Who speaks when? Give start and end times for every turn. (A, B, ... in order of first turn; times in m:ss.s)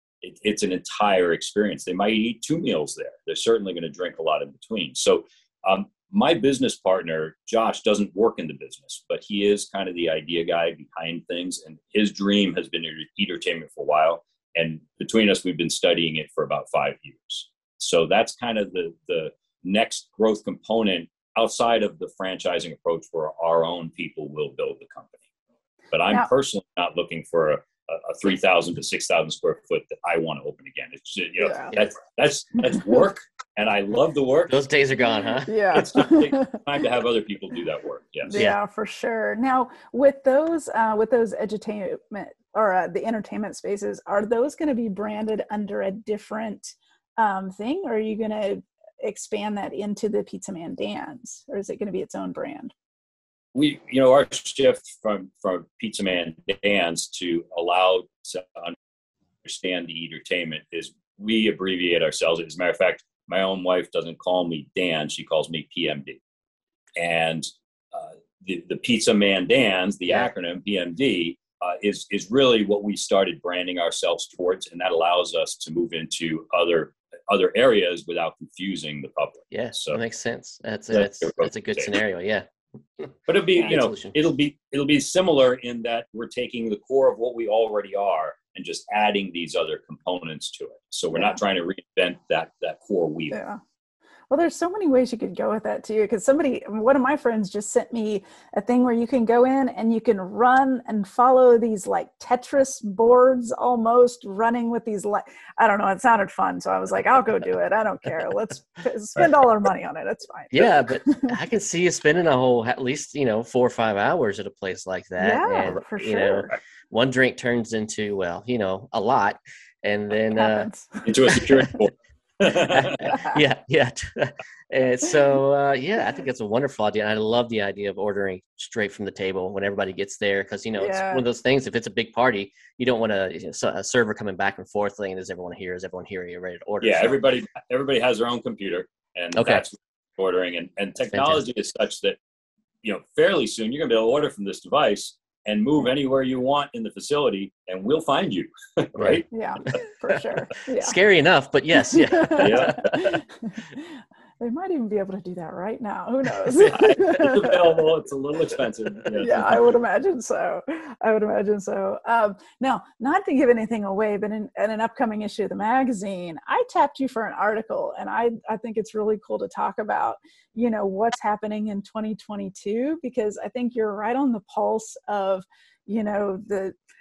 0:00.2-0:25.2 A
0:25.9-0:34.6 A
0:31.4-0:31.7 B
0:34.5-0:35.6 C
0:35.4-0:36.6 B
0:35.7-0:38.4 A
0:38.3-0:52.7 B
0:38.3-0:38.6 C
0:53.5-0:58.8 A
0:59.4-1:06.2 A
1:07.0-1:20.0 A
1:19.5-1:24.1 C
1:20.9-1:22.0 A
1:23.3-1:33.4 A
1:33.3-1:33.6 B
1:34.3-1:51.3 B
1:50.5-2:00.7 C
1:55.2-1:56.5 B
2:00.4-2:01.4 B
2:01.0-2:03.2 A
2:02.6-2:17.2 C
2:10.8-2:11.2 B
2:16.8-2:22.2 A
2:19.3-2:19.6 C
2:21.1-2:21.4 C
2:22.8-2:29.2 A
2:29.0-2:29.2 C
2:29.3-2:30.9 B
2:30.8-2:33.2 C
2:31.8-2:37.6 B
2:32.4-2:33.0 A
2:36.7-2:39.6 A
2:39.2-2:56.7 B